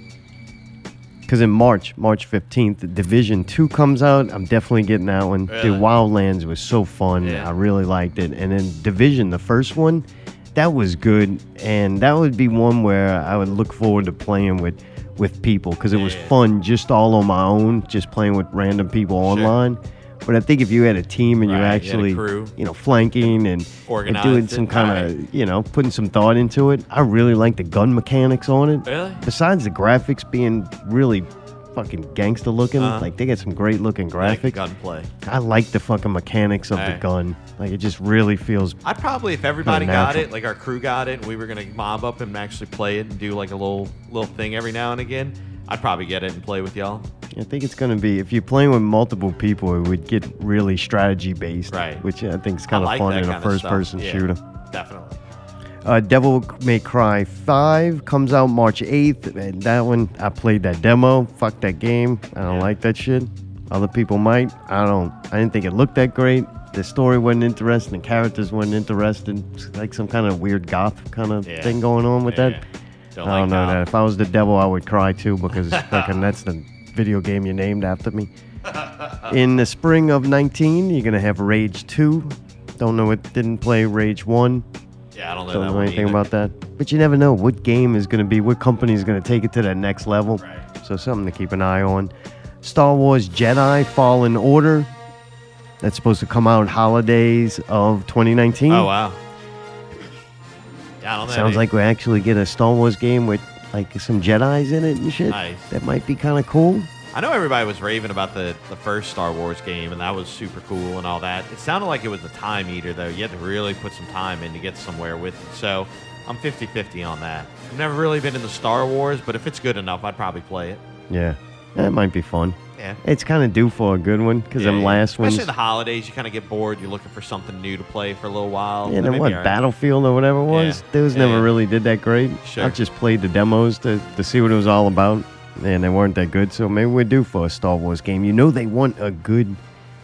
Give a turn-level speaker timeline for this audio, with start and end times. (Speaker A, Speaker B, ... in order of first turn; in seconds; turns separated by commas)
Speaker A: 1.3-34.6, Speaker B: 5.5-5.9, Speaker B: 7.2-7.5, Speaker B: 15.9-16.4, Speaker B: 19.2-19.6, Speaker B: 21.4-22.5, Speaker B: 23.9-25.1, Speaker B: 28.9-29.2, Speaker B: 32.8-33.1, Speaker B: 34.2-35.1, Speaker A: 35.2-38.8, Speaker B: 36.7-37.0, Speaker B: 38.8-47.1, Speaker A: 39.6-40.3, Speaker A: 47.3-54.4, Speaker B: 51.7-52.0, Speaker B: 52.7-55.2, Speaker A: 55.9-72.6, Speaker B: 62.5-62.7, Speaker B: 71.5-72.6, Speaker B: 73.2-73.8, Speaker A: 73.2-78.3, Speaker B: 75.7-76.2, Speaker B: 78.7-79.3, Speaker A: 79.3-84.7, Speaker B: 85.1-86.2, Speaker A: 85.5-94.9, Speaker B: 90.4-90.7, Speaker A: 95.8-98.9, Speaker B: 98.7-99.2, Speaker B: 101.0-101.6, Speaker A: 101.2-106.9, Speaker B: 105.3-105.7, Speaker B: 107.1-120.8, Speaker A: 121.1-125.5, Speaker B: 124.6-129.6, Speaker A: 128.8-139.6, Speaker B: 130.5-131.5, Speaker B: 132.4-132.8